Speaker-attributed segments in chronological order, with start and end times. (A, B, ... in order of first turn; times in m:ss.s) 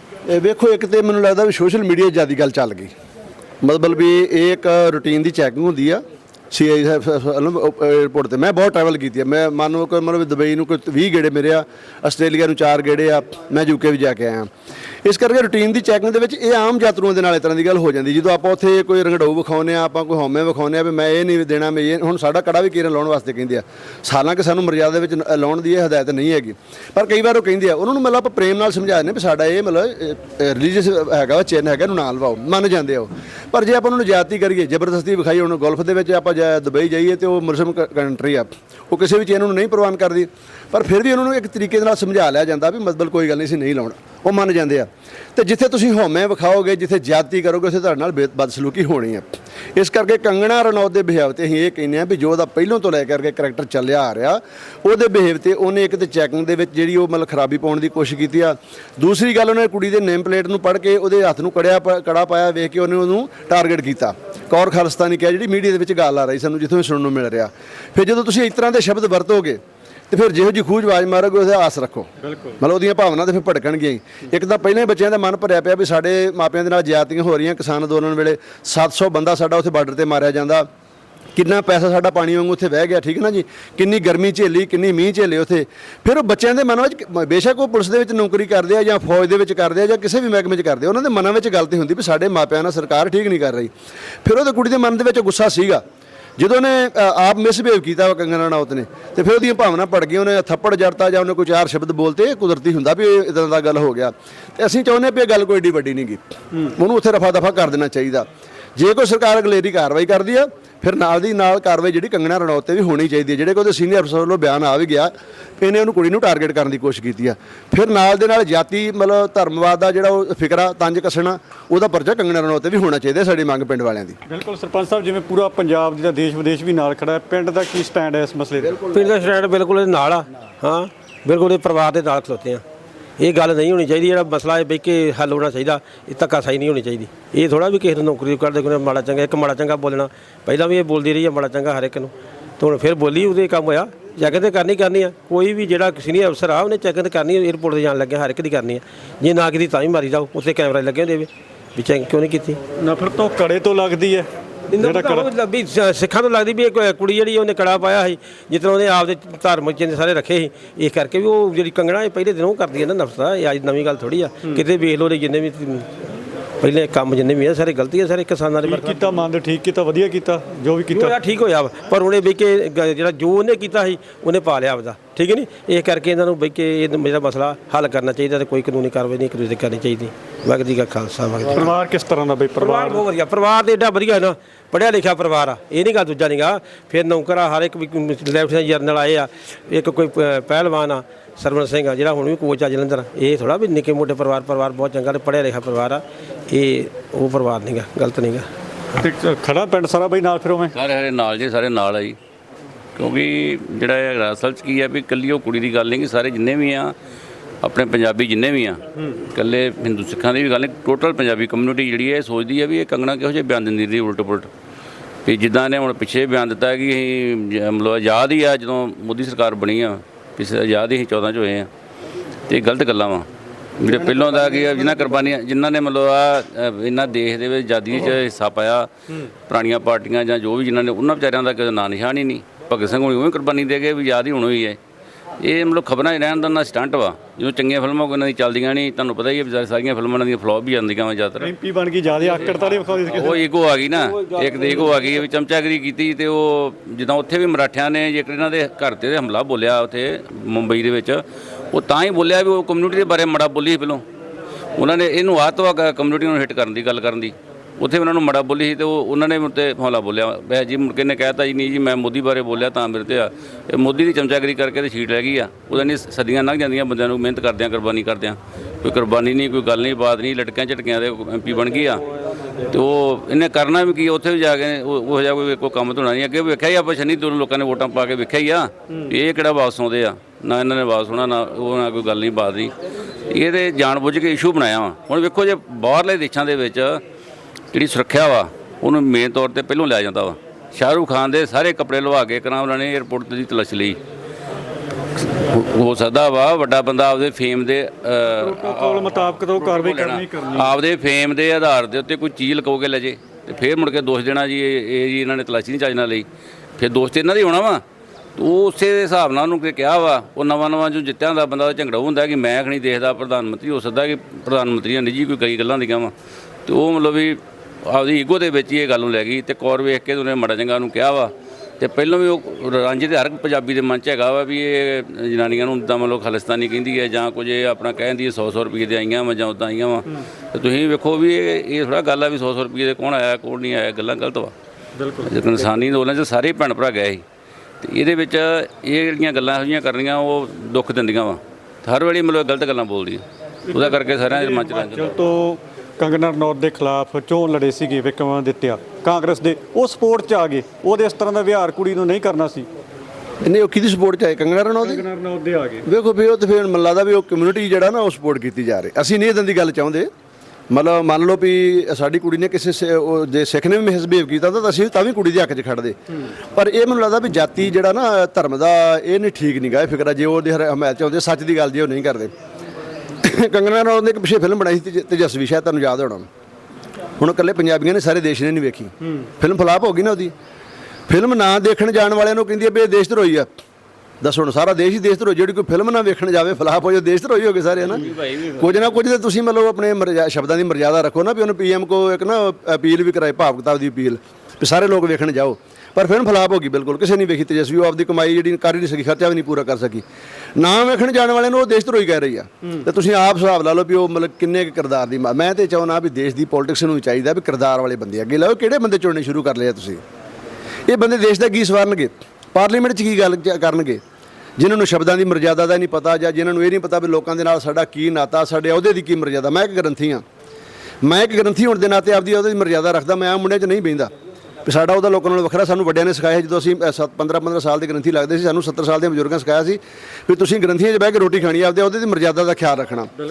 0:00.3-0:02.9 A
0:03.6-0:14.5 A
0:15.0-1:12.1 A
1:12.2-1:12.6 B
1:12.6-1:20.7 A
1:21.3-1:33.7 A
1:34.2-1:35.8 A
1:36.4-2:04.2 A
2:04.3-2:08.8 B
2:08.9-2:12.6 C
2:13.2-2:32.6 C
2:32.8-2:35.3 B
2:34.7-2:45.9 C
2:46.6-2:48.9 C
2:48.6-2:51.2 B
2:51.0-3:01.6 C
3:01.5-3:03.0 B
3:02.6-3:18.5 C
3:19.0-3:20.7 B
3:20.7-3:22.2 D
3:23.0-3:26.9 D
3:27.6-3:28.8 D
3:29.3-3:34.5 D
3:35.2-3:41.7 D
3:42.5-3:43.3 D
3:43.8-3:48.9 D
3:49.5-3:54.8 D
3:55.4-4:01.5 D
4:01.4-4:03.4 B
4:03.1-4:11.2 D
4:11.7-4:14.0 D
4:14.8-4:32.0 D
4:32.7-4:42.7 D
4:43.3-4:47.0 D
4:47.7-4:54.0 D
4:55.3-5:06.2 D
4:58.4-5:00.7 B
5:06.8-5:07.8 D
5:08.4-5:16.1 D
5:16.6-5:34.5 D
5:35.0-5:35.4 B
5:35.2-5:37.2 D
5:37.8-5:45.2 D
5:44.3-5:52.7 B
5:53.4-5:55.0 A
5:54.8-5:55.8 B
5:55.8-6:00.1 A
6:00.7-6:06.0 A
6:06.5-6:12.3 A
6:13.2-6:16.3 A
6:17.2-6:20.3 A
6:21.1-6:23.5 A
6:24.2-6:28.0 A
6:27.9-6:28.8 D
6:28.6-6:40.0 A
6:40.6-6:50.0 A
6:50.9-6:54.0 A
6:54.6-7:00.2 A
7:01.0-7:04.1 A
7:04.6-7:13.1 A